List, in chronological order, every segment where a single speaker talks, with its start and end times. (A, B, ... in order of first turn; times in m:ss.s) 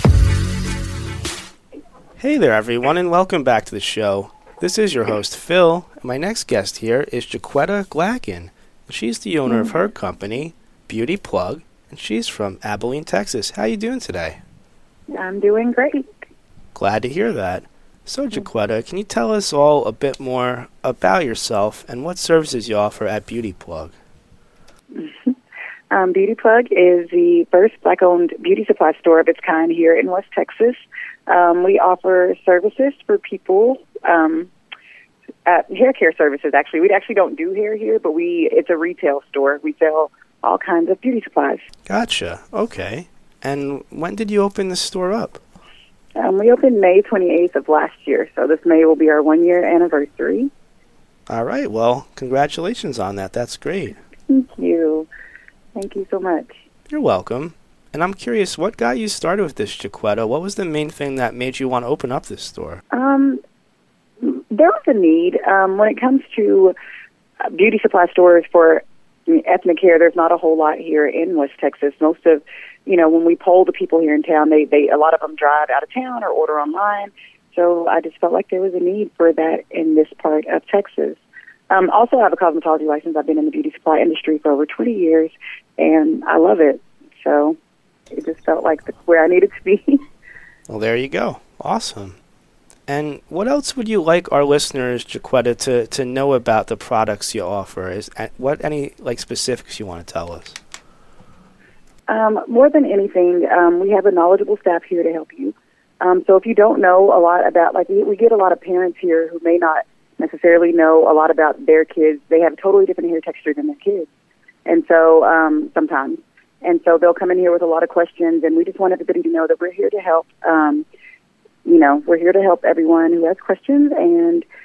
0:02.2-0:14.4 A
0:09.5-0:09.8 B
0:15.1-0:16.1 B
0:16.8-0:23.9 A
0:25.0-0:25.3 B
0:25.9-0:34.5 B
0:35.5-0:41.6 B
0:41.9-0:45.4 A
0:46.2-0:50.5 B
0:51.3-0:54.0 A
0:54.3-0:55.1 B
0:55.8-0:56.6 B
0:56.9-1:02.8 A
1:02.9-1:03.4 B
1:04.2-1:06.7 B
1:07.5-1:27.6 B
1:28.1-1:30.0 B
1:30.7-1:32.2 A
1:32.9-1:40.6 A
1:42.1-1:54.1 B
1:54.7-2:00.9 B
2:01.6-2:04.5 B